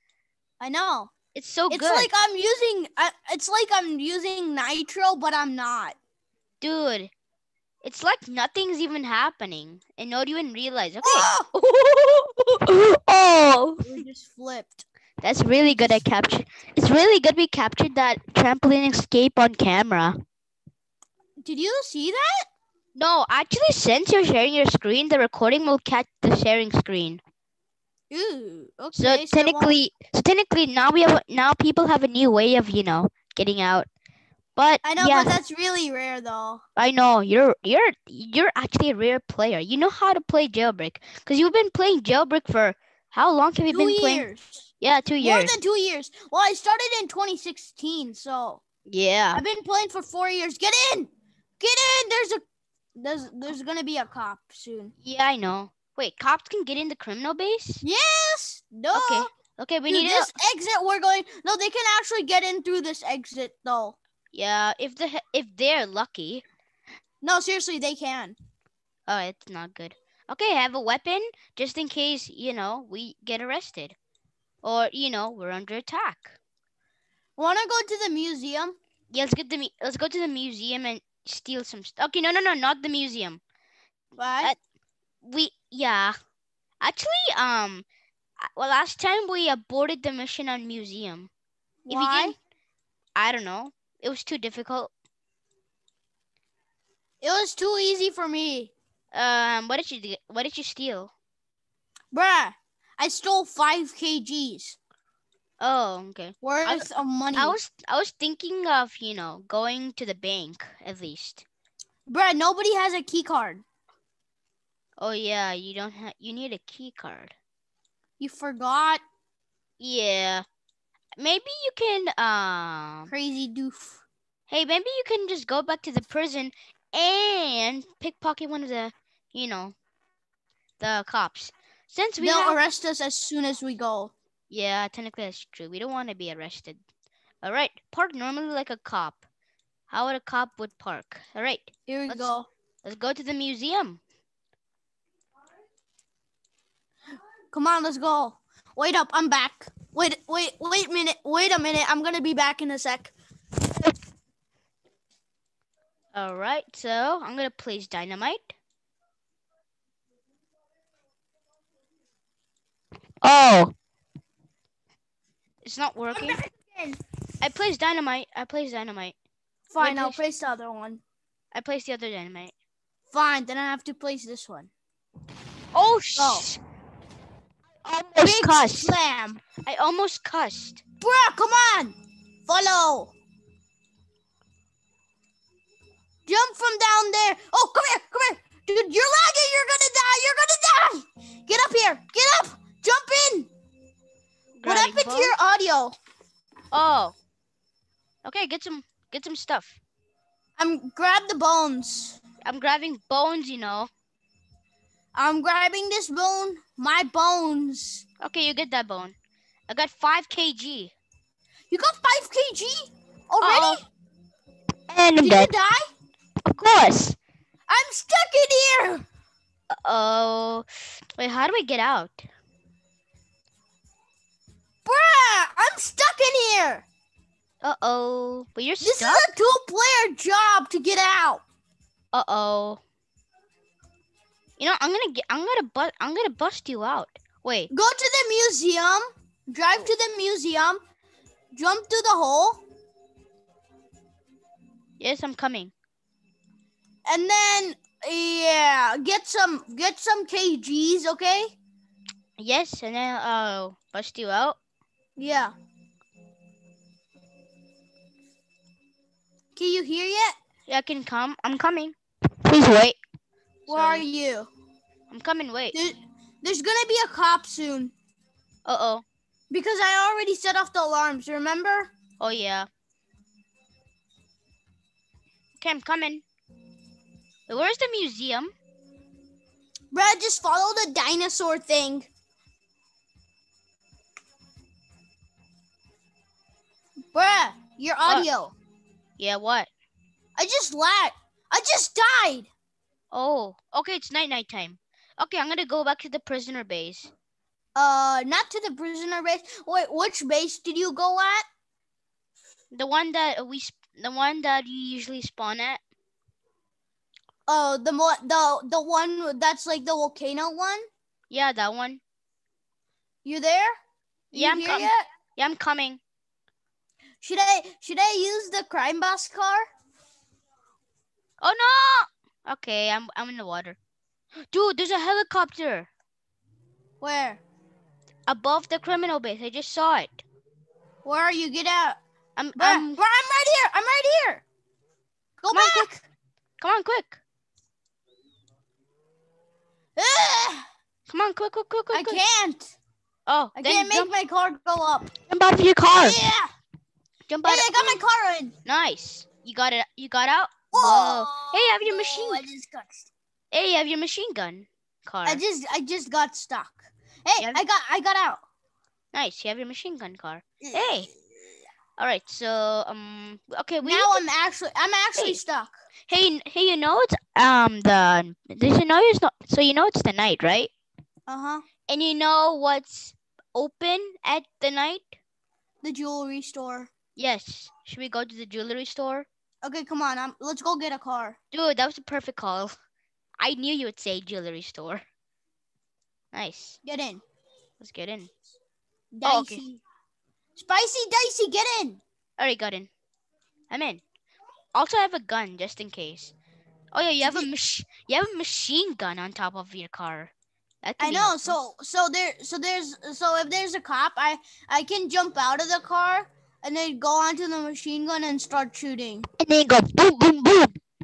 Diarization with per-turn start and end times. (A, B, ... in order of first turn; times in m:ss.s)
0:00.6-0:01.1 A
0:01.3-0:02.1 B
0:01.7-0:06.0 A
0:06.6-0:07.1 B
0:07.8-0:14.0 B
0:11.0-0:11.5 A
0:13.8-0:14.8 A
0:15.2-0:20.2 B
0:15.7-0:16.0 A
0:21.4-0:22.5 A
0:23.0-0:27.2 B
0:28.1-0:29.8 A
0:29.0-0:33.9 B
0:34.6-0:35.4 B
0:34.8-0:36.6 A
0:36.8-0:45.5 B
0:43.7-0:44.7 A
0:45.2-0:48.6 A
0:48.9-0:49.4 B
0:49.4-0:52.4 A
0:53.0-0:54.9 A
0:55.0-0:57.8 B
0:57.8-0:59.3 A
0:58.9-1:00.3 B
0:59.9-1:04.0 A
1:04.3-1:06.4 B
1:07.2-1:08.4 A
1:09.1-1:14.0 B
1:14.6-1:16.4 B
1:17.4-1:18.8 A
1:19.1-1:23.4 B
1:24.2-1:24.5 A
1:25.2-1:26.2 B
1:26.8-1:27.8 B
1:28.4-1:31.3 B
1:31.9-1:32.4 A
1:31.9-1:32.4 B
1:33.2-1:34.9 B
1:37.2-1:38.7 A
1:39.1-1:41.1 B
1:42.1-1:44.8 A
1:45.6-1:51.4 B
1:46.4-1:47.6 A
1:52.1-1:53.6 A
1:55.0-1:57.3 B
1:58.2-1:59.0 A
1:59.8-2:00.4 B
2:01.2-2:03.1 B
2:03.1-2:04.0 A
2:04.5-2:09.8 B
2:10.8-2:12.6 B
2:12.2-2:14.1 A
2:14.5-2:16.8 B
2:17.4-2:19.2 B
2:19.9-2:24.0 B
2:21.9-2:22.5 A
2:27.5-2:33.1 A
2:36.1-2:38.6 B
2:43.2-2:43.7 B
2:45.6-2:46.4 B
2:46.1-2:47.0 A
2:47.4-2:49.2 B
2:49.7-2:51.0 A
2:49.8-2:50.2 B
2:51.5-2:52.5 B
2:53.1-2:54.7 A
2:55.7-2:56.6 B
2:56.2-2:56.5 A
2:57.8-2:59.0 B
2:58.2-2:59.4 A
2:59.6-3:00.8 B
3:01.0-3:03.1 A
3:06.3-3:13.5 A
3:14.6-3:15.4 B
3:14.6-3:16.0 A
3:16.7-3:17.2 B
3:18.2-3:19.8 B
3:20.6-3:22.2 A
3:22.4-3:23.9 B
3:25.1-3:28.0 A
3:28.2-3:29.2 B
3:29.7-3:30.9 B
3:31.7-3:33.8 A
3:33.4-3:33.8 B
3:34.9-3:35.5 B
3:35.2-3:35.9 A
3:36.4-3:37.2 B
3:37.7-3:39.0 A
3:39.7-3:42.3 B
3:44.8-3:46.9 A
3:47.6-3:49.3 B
3:48.8-3:51.4 A
3:52.1-3:52.8 B
3:54.6-3:57.7 B
3:57.7-4:00.8 A
4:01.5-4:02.6 A
4:05.0-4:05.7 B
4:07.1-4:11.6 A
4:12.4-4:14.6 B
4:15.2-4:15.5 A
4:19.6-4:20.4 A
4:20.7-4:23.0 B
4:23.7-4:24.0 B
4:23.7-4:24.5 A
4:25.1-4:25.8 B
4:25.7-4:27.9 A
4:28.7-4:29.0 B
4:29.5-4:31.9 A
4:32.2-4:32.7 B
4:35.6-4:36.2 B
4:37.5-4:38.5 B
4:39.9-4:42.1 A
4:47.1-4:48.6 A
4:49.2-4:49.7 B
4:50.4-4:52.5 A
4:53.1-4:57.1 B
4:57.8-5:01.4 A
5:02.7-5:05.8 B
5:07.5-5:10.9 A
5:11.3-5:12.0 B
5:13.2-5:13.8 A
5:14.3-5:15.0 A
5:14.3-5:16.0 B
5:17.2-5:19.7 A
5:21.4-5:23.8 B
5:24.5-5:25.9 B
5:27.0-5:27.4 A
5:28.3-5:30.2 B
5:31.0-5:32.0 A
5:32.4-5:33.0 B
5:32.6-5:34.4 A
5:35.4-5:36.0 A
5:35.5-5:35.9 B
5:36.6-5:37.2 B
5:40.0-5:40.7 A
5:41.1-5:42.2 B
5:41.9-5:42.8 A
5:43.3-5:44.1 B
5:43.6-5:45.1 A
5:45.3-5:46.3 B
5:45.9-5:46.5 A
5:47.3-5:48.0 B
5:47.4-5:48.5 A
5:48.7-5:52.4 B
5:50.7-5:53.1 A
5:53.5-5:55.4 B
5:55.2-5:58.4 A
5:59.1-6:01.1 B
6:00.6-6:01.0 A
6:02.0-6:04.2 B
6:03.8-6:05.7 A
6:06.1-6:10.7 B
6:11.3-6:11.6 A
6:11.9-6:15.2 B
6:15.8-6:16.9 A
6:17.2-6:19.3 B
6:19.6-6:21.4 A
6:21.5-6:22.7 B
6:23.4-6:25.0 B
6:26.3-6:26.8 B
6:26.8-6:27.2 A
6:27.8-6:28.3 B
6:29.1-6:29.8 A
6:29.2-6:29.6 B
6:30.6-6:32.0 A
6:32.4-6:32.9 B
6:33.7-6:34.0 B
6:34.7-6:36.4 B
6:36.9-6:40.3 B
6:37.2-6:37.5 A
6:40.8-6:41.6 B
6:41.0-6:49.3 A
6:49.4-6:50.8 B